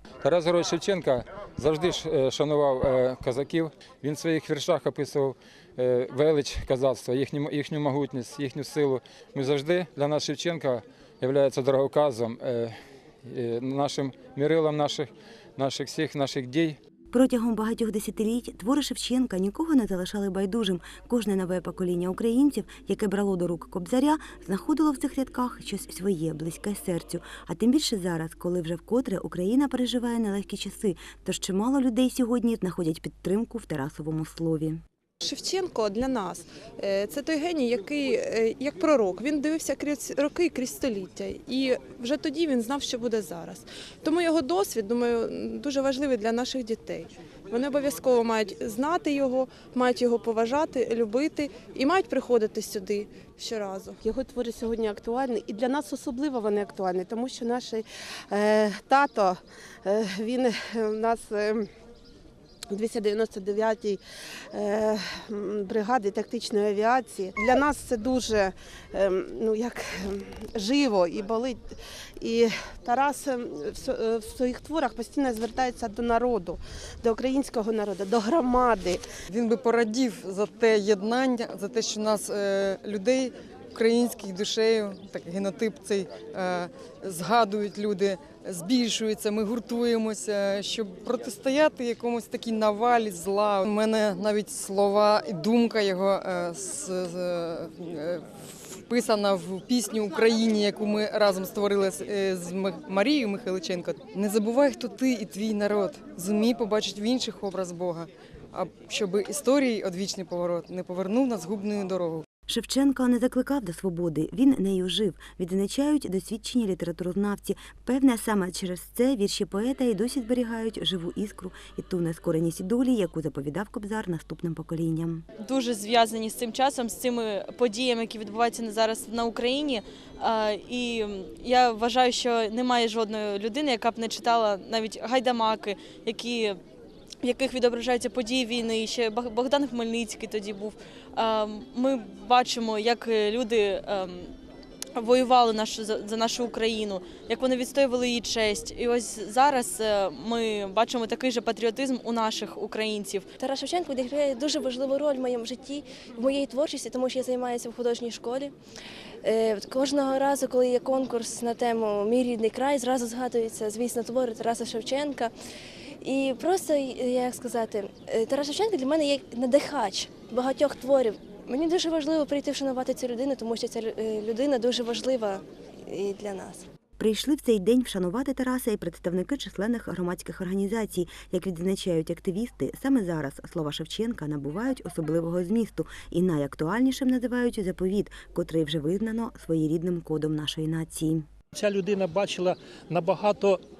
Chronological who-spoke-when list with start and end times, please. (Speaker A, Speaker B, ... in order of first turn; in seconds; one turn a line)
Speaker A: 0.2-16.8
Speaker B: 17.1-34.8
Speaker C: 35.2-54.0
Speaker D: 54.0-61.7
Speaker D: 62.7-64.0
Speaker D: 64.5-79.0
Speaker E: 79.3-112.2
Speaker B: 112.5-125.2
Speaker F: 125.4-136.6
Speaker F: 137.2-144.3
Speaker F: 144.9-153.2
Speaker G: 153.4-158.5
Speaker G: 159.2-165.3
Speaker G: 166.0-176.7
Speaker B: 177.0-191.3
Speaker H: 191.5-193.6